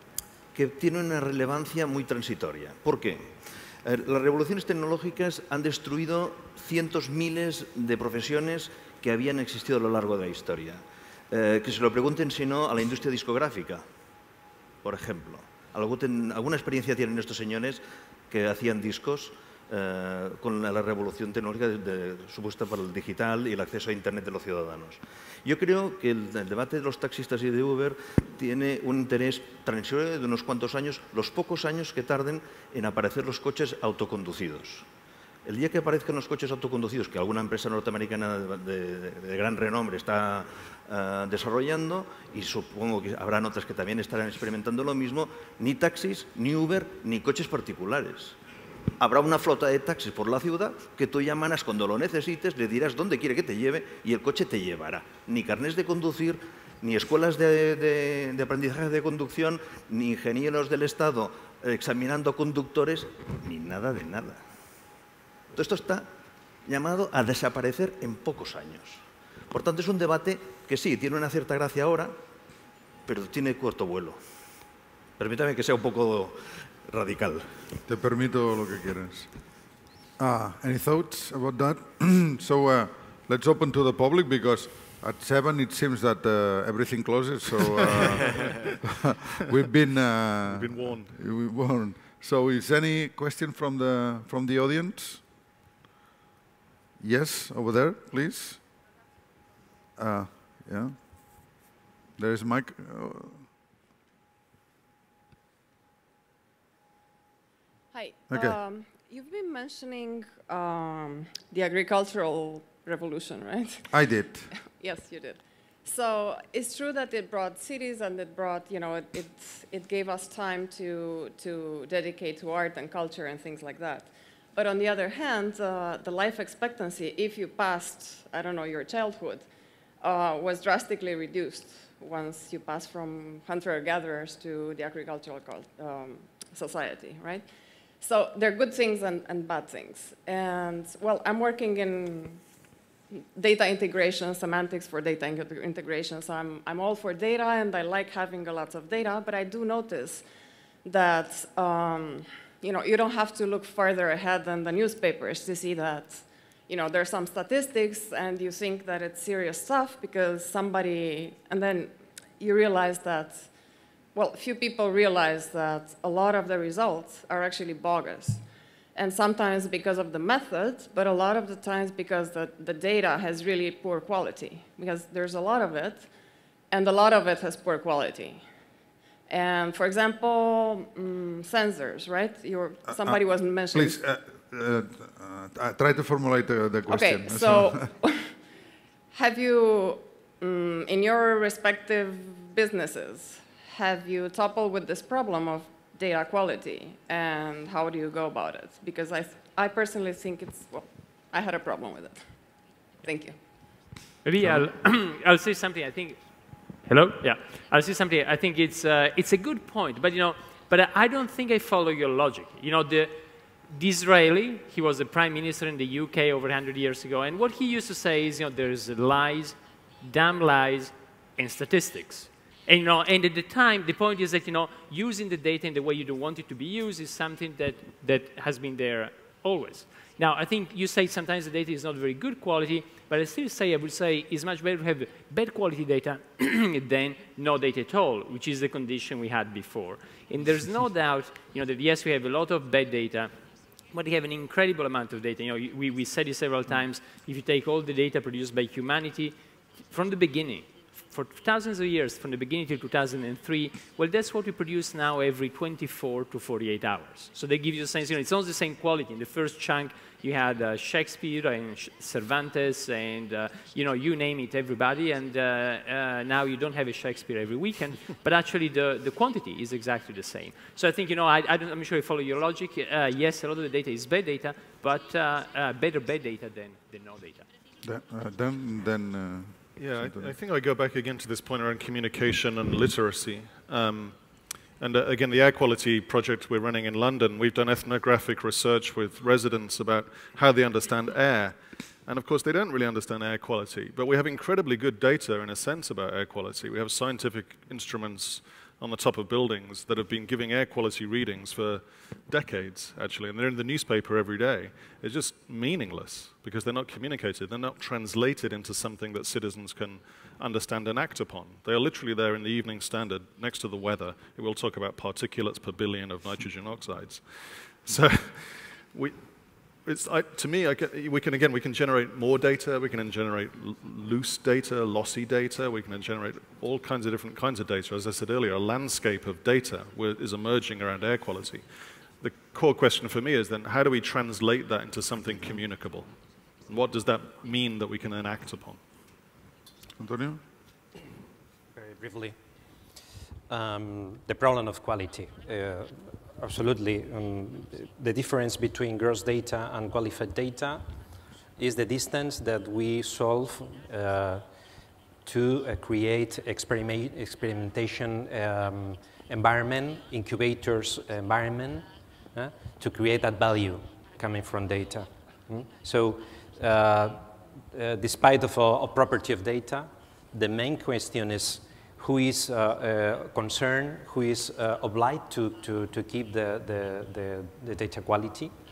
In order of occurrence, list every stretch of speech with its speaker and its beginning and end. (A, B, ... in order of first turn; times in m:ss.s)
0:00.5-0:13.8 A
0:14.8-0:34.9 A
0:35.4-0:48.4 A
0:49.0-1:04.4 A
1:05.5-1:06.1 A
1:06.7-1:12.1 A
1:13.1-1:14.2 A
1:15.2-1:17.5 A
1:17.9-1:19.3 B
1:20.2-1:35.2 B
1:30.4-1:31.2 C
1:37.0-1:38.6 B
1:40.0-1:41.6 B
1:42.2-1:43.5 B
1:47.9-1:53.9 D
1:48.3-1:48.6 B
1:53.9-1:54.5 B
1:54.6-2:09.5 D
2:10.0-2:17.5 D
2:18.0-2:22.4 D
2:23.1-2:30.2 D
2:30.8-2:43.5 D
2:44.1-2:48.4 D
2:49.0-2:56.1 D
2:56.7-2:58.4 D
2:59.3-3:04.0 D
3:03.7-3:07.9 B
3:06.9-3:08.3 D
3:09.1-3:22.2 D
3:23.0-3:23.4 D
3:24.2-3:26.2 E
3:26.9-3:33.2 E
3:33.7-4:03.3 E
4:03.9-4:09.3 E
4:09.9-4:37.5 E
4:37.8-4:40.3 B
4:39.8-4:44.2 C
4:44.8-5:19.2 C
5:19.8-5:31.6 C
5:32.2-5:36.1 C
5:36.7-5:38.8 C
5:40.0-5:40.4 B
5:41.8-5:42.4 F
5:43.5-5:50.8 F
5:51.6-5:54.5 F
5:55.2-6:18.5 F